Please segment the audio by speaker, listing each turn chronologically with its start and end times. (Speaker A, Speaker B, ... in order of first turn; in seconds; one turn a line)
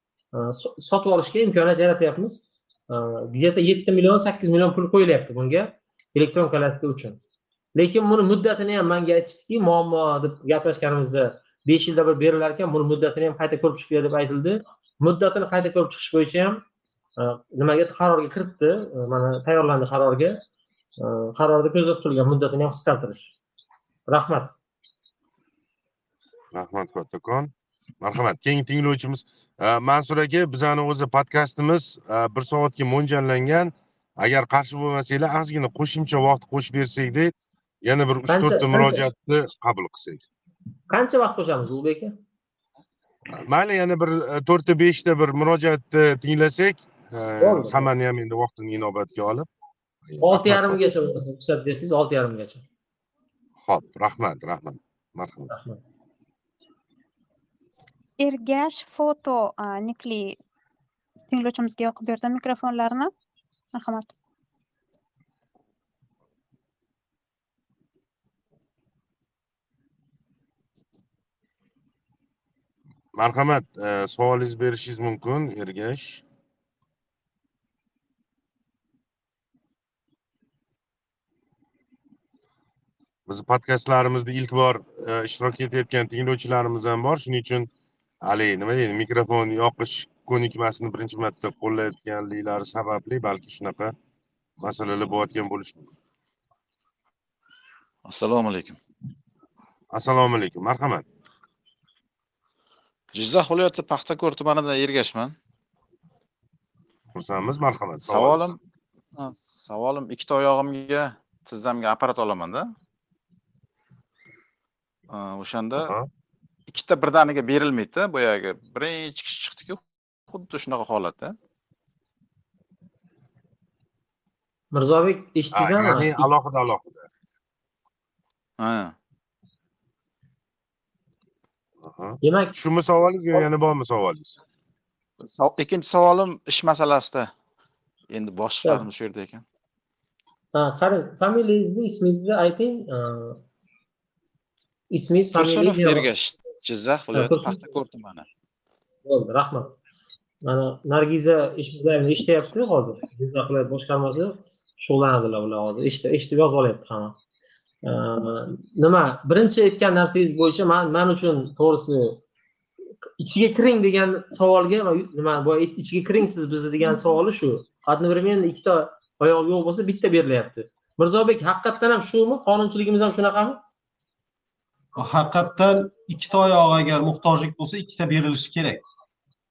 Speaker A: 0.3-7.2
Speaker A: 7.8-16.6
Speaker A: 17.2-20.4
Speaker A: 21.0-23.4
Speaker A: 24.1-24.6
Speaker B: 26.5-40.3
Speaker A: 38.3-39.0
Speaker A: 40.9-42.2
Speaker B: 43.3-49.5
Speaker A: 47.4-47.9
Speaker B: 50.1-50.8
Speaker A: 50.2-52.6
Speaker B: 53.6-55.5
Speaker A: 55.5-55.8
Speaker C: 58.2-60.4
Speaker C: 61.3-63.1
Speaker C: 63.7-64.1
Speaker B: 73.2-76.2
Speaker B: 83.3-87.7
Speaker B: 88.2-93.9
Speaker B: 94.6-95.9
Speaker D: 98.1-98.8
Speaker B: 99.9-101.0
Speaker D: 103.1-105.3
Speaker B: 107.1-108.5
Speaker D: 108.0-108.6
Speaker D: 109.2-112.7
Speaker D: 115.1-115.9
Speaker B: 115.8-116.1
Speaker D: 116.7-121.3
Speaker A: 124.7-126.3
Speaker B: 125.5-127.1
Speaker D: 128.6-128.9
Speaker B: 131.8-134.4
Speaker A: 132.2-132.5
Speaker D: 135.2-137.3
Speaker D: 138.1-139.4
Speaker A: 140.6-143.4
Speaker A: 144.9-146.1
Speaker D: 145.3-148.3
Speaker A: 147.1-147.6
Speaker A: 149.1-149.8
Speaker A: 150.4-157.2
Speaker A: 157.8-162.2
Speaker A: 163.2-173.6
Speaker E: 175.0-178.8